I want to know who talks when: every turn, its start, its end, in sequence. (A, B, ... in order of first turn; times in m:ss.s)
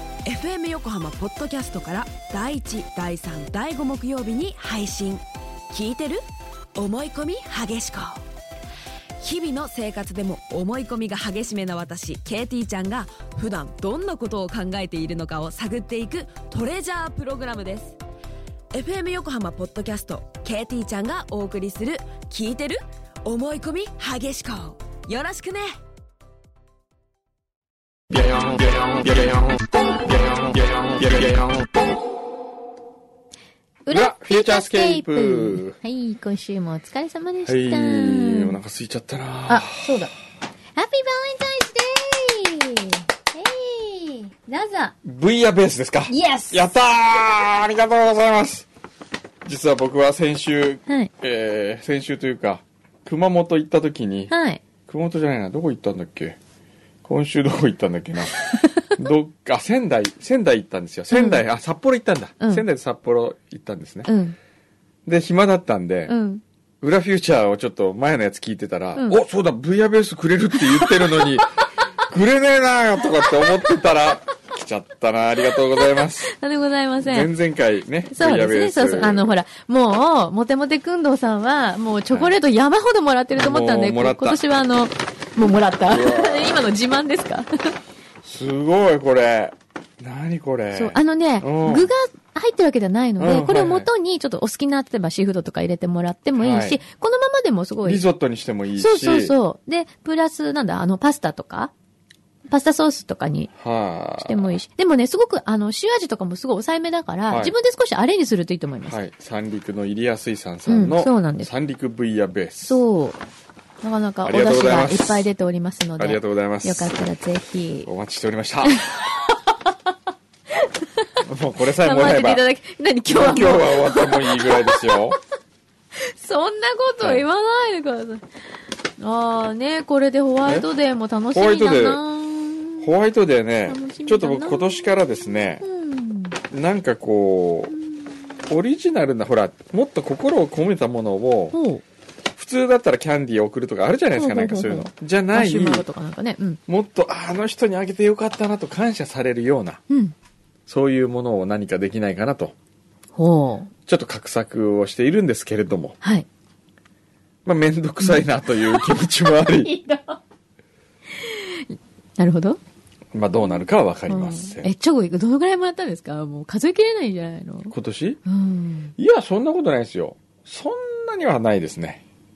0:00.3-0:06.2 A
0:06.8-0:08.2 A
0:09.2-0:18.0 A
0:18.7-0:25.7 A
0:28.1-0:31.8 B
0:33.8-0:38.6 C
0:33.9-0:35.8 B
0:37.4-0:40.0 B
0:39.5-0:40.1 C
0:40.8-0:45.0 C
0:45.0-0:48.7 B
0:46.1-0:46.7 C
0:49.4-0:54.3 B
0:54.3-0:54.6 C
0:54.9-0:56.4 B
0:57.0-1:04.1 B
1:01.1-1:01.4 C
1:02.4-1:02.6 C
1:04.1-1:04.4 C
1:05.1-1:06.1 B
1:06.1-1:06.4 C
1:06.8-1:11.5 B
1:10.8-1:11.2 C
1:12.1-1:16.3 B
1:16.2-1:17.3 C
1:17.0-1:19.3 B
1:18.1-1:27.8 C
1:23.4-1:24.4 B
1:25.9-1:26.6 B
1:28.2-1:31.9 B
1:30.7-1:38.0 C
1:33.2-1:33.9 B
1:36.4-1:36.8 B
1:37.8-1:39.3 B
1:38.8-1:41.7 C
1:42.5-1:43.5 C
1:43.6-1:44.6 B
1:44.2-1:49.0 C
1:47.3-1:47.5 B
1:48.9-1:52.8 B
1:50.7-1:51.5 C
1:52.7-1:53.2 C
1:53.8-1:57.9 C
1:54.2-1:55.3 B
1:56.0-1:56.9 B
1:57.9-1:58.8 B
1:58.6-1:59.7 C
2:00.6-2:01.1 C
2:01.2-2:02.4 B
2:01.8-2:05.1 C
2:03.1-2:05.2 B
2:06.0-2:08.2 C
2:09.0-2:12.9 C
2:11.3-2:12.0 B
2:12.8-2:15.6 B
2:13.7-2:16.4 C
2:16.5-2:17.7 B
2:18.5-2:21.6 B
2:21.5-2:21.8 C
2:22.4-2:25.9 B
2:24.1-2:26.6 C
2:26.7-2:29.8 B
2:30.7-2:32.5 B
2:33.2-2:33.7 C
2:33.9-2:36.0 B
2:36.0-2:36.3 C
2:37.4-2:39.7 B
2:38.8-2:40.2 C
2:41.2-2:42.6 C
2:43.1-2:44.7 B
2:44.1-2:47.7 C
2:47.7-2:48.2 B
2:48.3-2:48.9 C
2:49.0-2:52.0 B